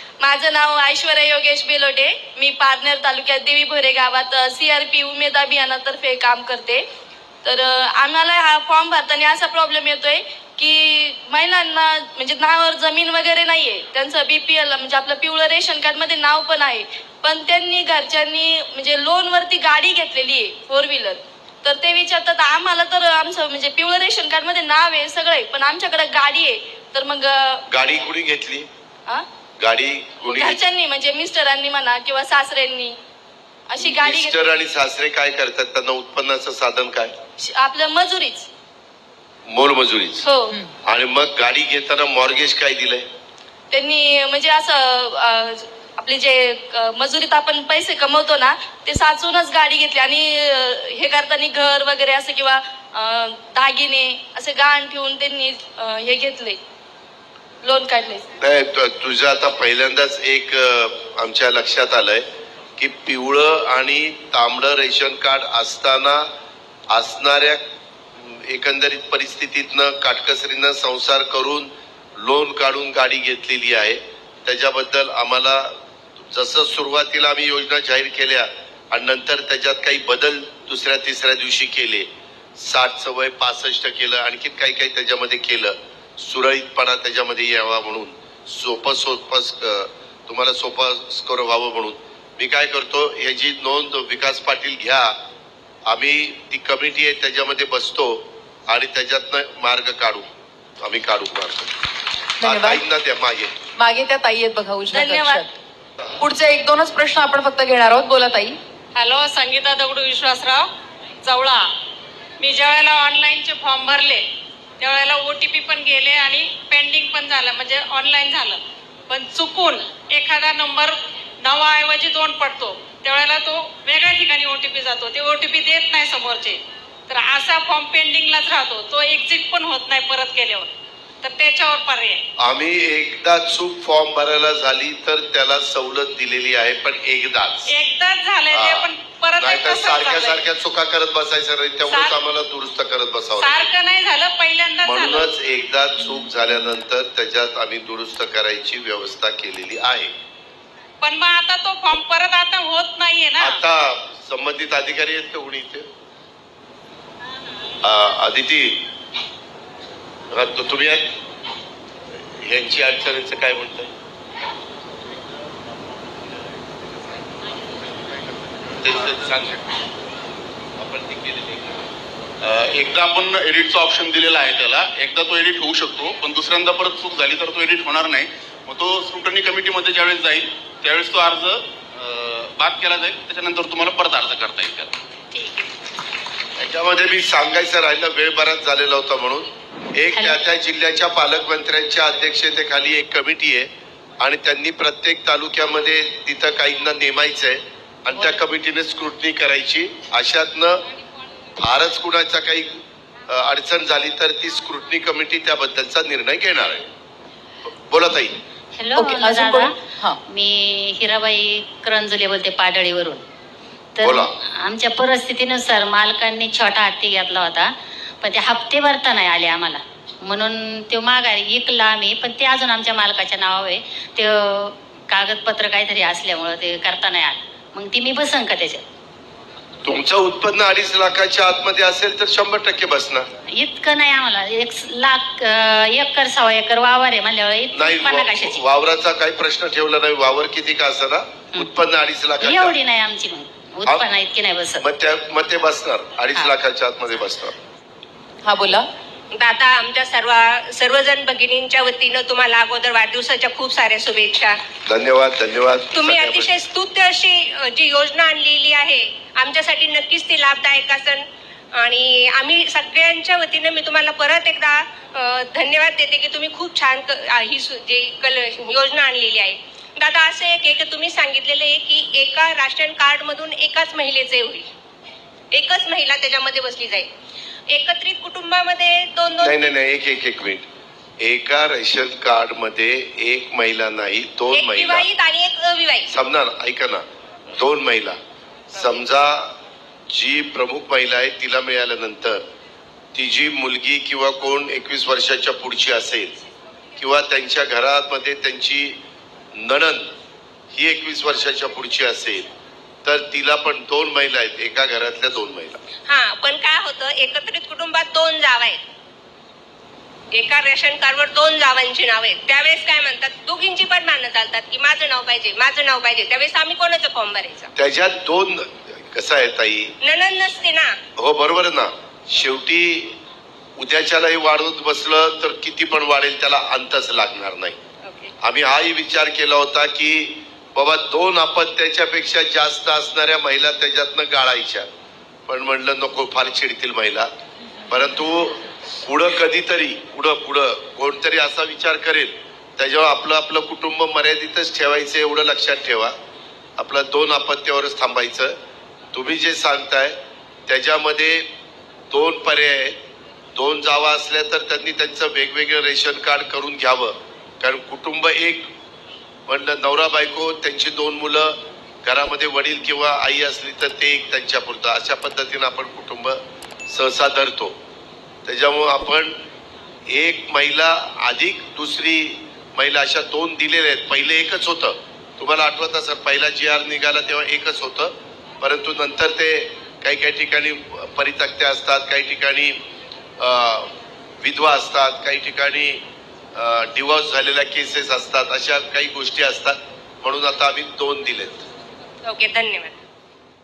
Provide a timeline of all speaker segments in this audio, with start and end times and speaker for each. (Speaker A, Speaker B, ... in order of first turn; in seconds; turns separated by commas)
Speaker A: 0.2-6.8, Speaker A: 7.4-27.6, Speaker B: 27.7-28.7, Speaker B: 29.6-30.6, Speaker A: 30.3-33.0, Speaker A: 33.7-34.4, Speaker B: 33.8-37.1, Speaker A: 37.4-38.5, Speaker B: 39.5-40.3, Speaker A: 40.2-40.6, Speaker B: 40.9-43.1, Speaker A: 43.7-56.6, Speaker A: 57.6-58.2, Speaker B: 58.4-62.2, Speaker B: 62.8-66.3, Speaker B: 66.9-67.6, Speaker B: 68.2-95.2, Speaker B: 95.9-100.2, Speaker B: 100.8-101.7, Speaker C: 102.4-102.8, Speaker B: 102.4-103.5, Speaker C: 103.8-105.4, Speaker A: 104.9-105.5, Speaker C: 106.2-108.5, Speaker D: 109.0-110.7, Speaker D: 111.2-111.7, Speaker D: 112.4-114.2, Speaker D: 114.8-130.7, Speaker D: 131.2-132.2, Speaker B: 132.4-137.7, Speaker D: 137.7-140.4, Speaker B: 138.5-143.7, Speaker D: 141.9-142.2, Speaker D: 143.3-145.3, Speaker B: 144.8-150.1, Speaker D: 151.0-153.6, Speaker B: 153.4-155.9, Speaker B: 157.8-158.8, Speaker B: 160.3-161.1, Speaker B: 162.4-163.9, Speaker E: 168.8-169.6, Speaker E: 170.9-171.8, Speaker E: 172.4-184.9, Speaker B: 186.6-200.8, Speaker B: 201.6-202.8, Speaker B: 203.3-206.9, Speaker B: 207.7-208.4, Speaker F: 208.8-209.8, Speaker C: 209.0-210.2, Speaker F: 210.3-213.2, Speaker F: 214.0-228.8, Speaker B: 214.0-214.3, Speaker B: 229.8-233.3, Speaker F: 233.5-238.6, Speaker B: 237.7-242.8, Speaker F: 242.4-244.8, Speaker B: 244.8-247.5, Speaker C: 248.5-248.8, Speaker G: 249.3-254.6, Speaker B: 254.9-256.5, Speaker G: 255.9-261.2, Speaker G: 261.8-274.7, Speaker G: 275.5-277.1, Speaker G: 277.7-279.6, Speaker B: 279.4-280.7, Speaker B: 281.2-285.1, Speaker G: 284.5-286.1, Speaker B: 286.1-287.0, Speaker B: 287.6-288.2, Speaker B: 288.7-289.5, Speaker B: 290.1-292.4, Speaker B: 293.1-296.4, Speaker B: 297.0-299.0, Speaker B: 299.6-300.1, Speaker B: 300.7-302.5, Speaker B: 303.1-305.8, Speaker G: 306.1-308.8, Speaker G: 310.3-317.7, Speaker B: 317.8-319.9, Speaker G: 320.0-320.9, Speaker B: 321.2-323.1, Speaker B: 323.8-327.8, Speaker G: 328.1-328.3, Speaker B: 328.4-334.9, Speaker B: 335.5-337.3, Speaker B: 337.9-346.1, Speaker B: 346.8-348.6, Speaker B: 349.1-350.2, Speaker B: 350.7-351.5, Speaker B: 352.1-353.0, Speaker B: 353.6-358.7, Speaker B: 359.5-367.8, Speaker B: 368.4-369.4, Speaker B: 370.1-382.8, Speaker B: 383.4-386.0, Speaker B: 386.6-391.6, Speaker G: 392.2-393.0